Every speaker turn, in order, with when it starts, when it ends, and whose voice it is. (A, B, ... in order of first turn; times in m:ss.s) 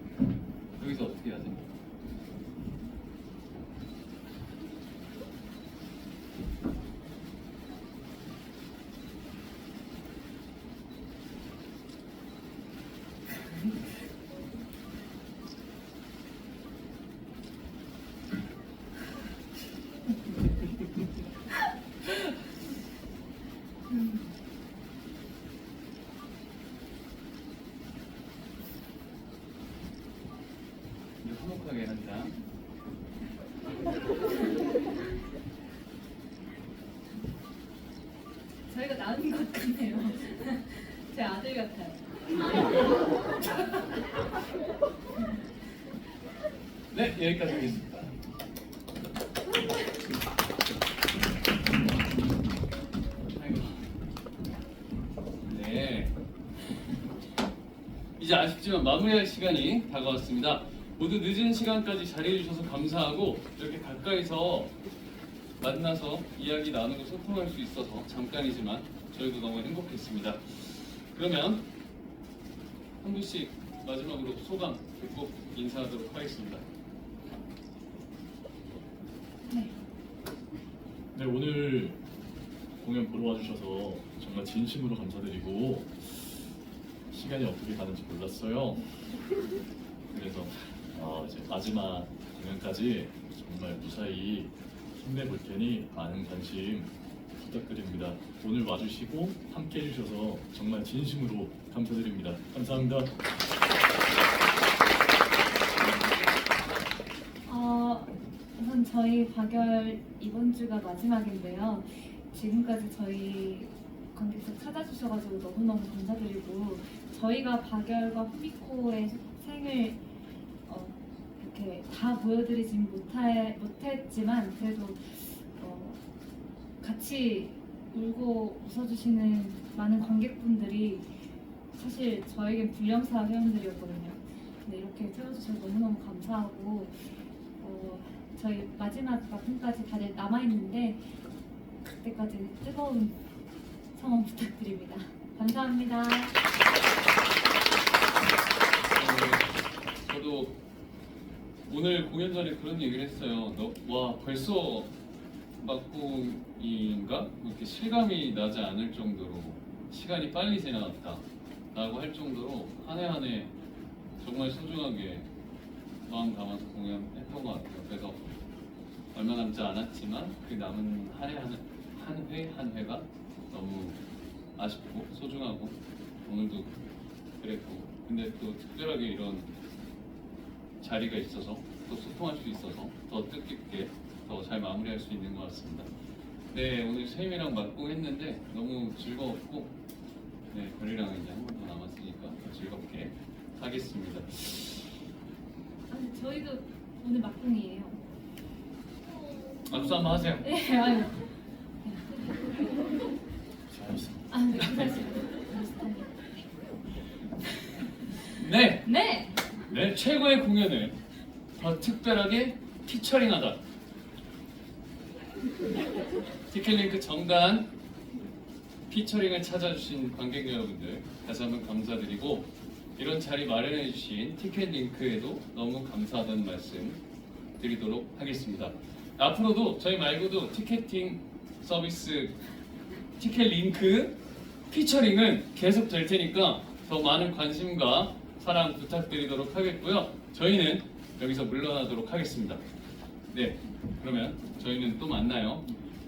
0:00.8-0:01.6 A
0:23.9-0:24.2 B
0:31.2-0:32.4 A
0:38.7-0:42.6 B
0:46.9-0:48.1 A
0:53.2-0:53.9 A
0:55.4-0:56.1 A
0:58.2-1:04.7 A
1:05.6-1:11.7 A
1:13.0-1:16.6 A
1:19.5-1:19.7 B
1:21.1-1:22.0 C
1:22.8-1:26.4 C
1:27.1-1:28.9 C
1:30.1-1:43.1 C
1:47.5-2:00.0 B
2:00.6-2:06.0 B
2:06.8-2:11.1 B
2:11.7-2:17.0 B
2:17.6-2:21.0 B
2:21.8-2:23.2 B
2:23.9-2:26.4 B
2:28.9-2:30.6 A
2:31.6-2:34.9 A
2:35.6-2:43.5 A
2:44.2-2:45.3 A
2:46.1-2:48.2 A
2:49.1-2:54.0 A
2:54.6-2:56.7 A
2:57.4-2:59.5 A
3:00.8-3:05.9 A
3:06.5-3:09.8 A
3:10.5-3:14.9 A
3:15.9-3:18.0 B
3:19.7-3:20.5 A
3:20.4-3:21.3 B
3:21.8-3:22.5 B
3:23.7-3:24.3 C
3:24.3-3:26.2 B
3:28.3-3:28.9 A
3:28.8-3:29.4 B
3:29.7-3:31.0 A
3:31.6-3:33.6 A
3:36.5-3:37.7 A
3:38.9-3:47.0 A
3:47.6-3:52.4 A
3:53.2-3:54.2 A
3:54.7-4:02.6 A
4:03.3-4:05.7 A